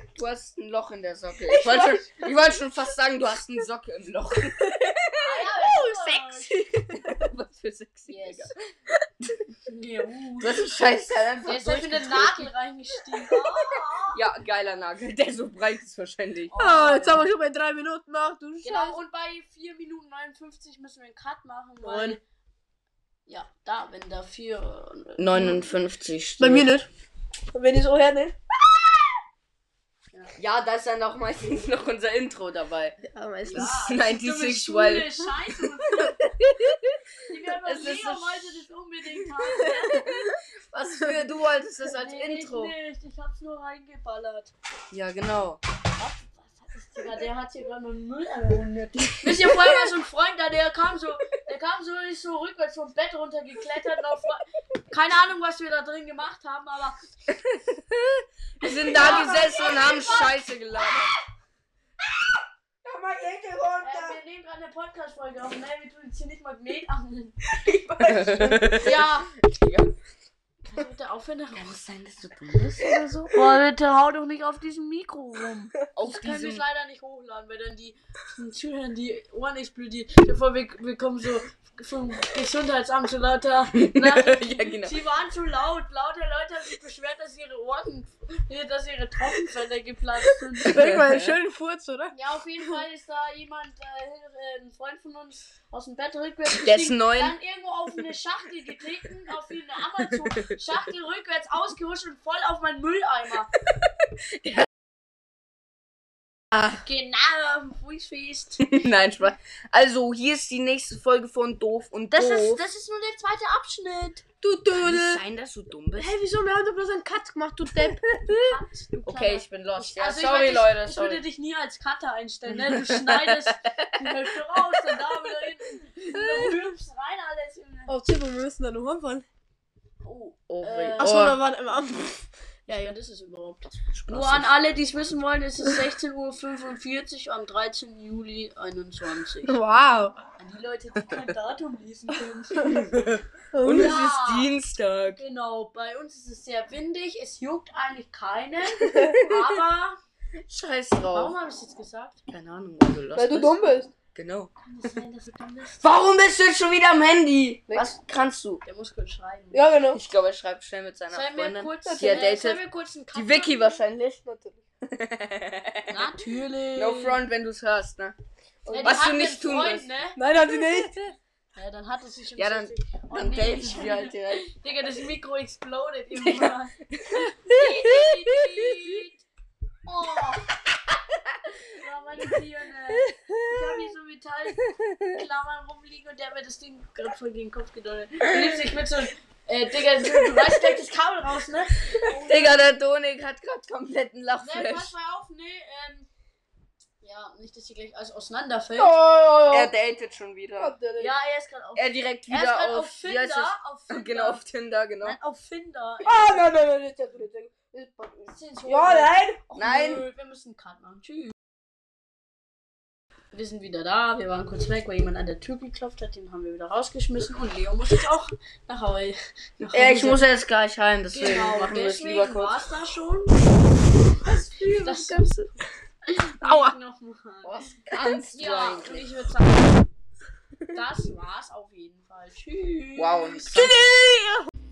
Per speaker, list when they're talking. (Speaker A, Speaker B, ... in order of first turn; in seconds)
Speaker A: 0.1-8.6, 10.4-12.5, 14.1-16.5, 25.2-26.7, 30.4-33.0, 33.5-37.0, 37.6-38.7, 39.9-42.7, 44.9-45.6, 57.5-61.1, 68.0-69.9, 71.5-73.4, 76.0-76.6, 83.7-85.0, 90.7-91.4, 96.5-97.3, 100.3-100.6, 108.7-112.6, 114.8-116.1, 119.0-121.2, 122.7-123.9, 126.2-126.5, 130.5-131.4, 133.9-134.6, 142.7-145.2, 148.9-149.4, 150.5-151.3, 152.3-154.5, 155.8-158.6, 159.9-162.6, 163.1-164.2, 164.9-166.1, 166.8-168.2, 168.8-169.9, 170.4-171.1, 172.4-174.4, 176.2-178.9, 183.2-183.6, 192.1-194.9, 199.5-200.8, 201.8-205.2, 209.6-210.1, 219.7-222.6, 224.3-225.5, 226.4-226.8, 227.4-229.1, 233.0-234.4
Speaker B: 1.7-2.1, 5.2-6.6, 8.1-8.5, 9.7-10.6, 11.4-14.2, 16.5-17.3, 18.6-22.2, 23.3-25.6, 33.5-36.2, 37.3-40.1, 42.0-44.5, 46.0-57.0, 58.6-60.5, 63.8-67.4, 68.8-69.3, 70.6-71.7, 73.3-90.8, 92.1-103.5, 106.7-108.8, 112.1-114.2, 118.3-127.9, 130.1-131.3, 132.7-139.6, 140.4-142.8, 143.7-144.5, 145.2-150.0, 151.1-152.2, 154.6-155.9, 158.6-159.7, 161.1-163.8, 165.9-167.2, 168.7-170.2, 171.6-179.2, 179.8-180.5, 181.7-192.7, 194.4-196.1, 197.0-199.0, 201.0-204.4, 205.0-206.5, 208.3-211.3, 213.3-220.3, 221.1-223.5, 224.3-225.3, 226.1-227.7, 228.3-229.9, 230.7-233.8
Speaker C: 16.6-19.0, 21.8-22.2, 26.4-26.9, 27.5-28.4, 33.0-33.8, 41.0-41.2, 58.8-60.2, 62.8-64.2, 67.5-68.9, 90.7-92.2, 114.4-115.2, 116.0-118.1, 127.9-129.2, 131.0-132.9, 139.5-140.2, 142.6-142.9, 143.5-144.0, 153.2-153.9, 159.5-160.0, 161.8-162.3, 164.2-164.6, 168.7-169.0, 170.2-171.0, 198.8-199.7, 200.6-201.1, 206.0-209.4, 224.4-224.9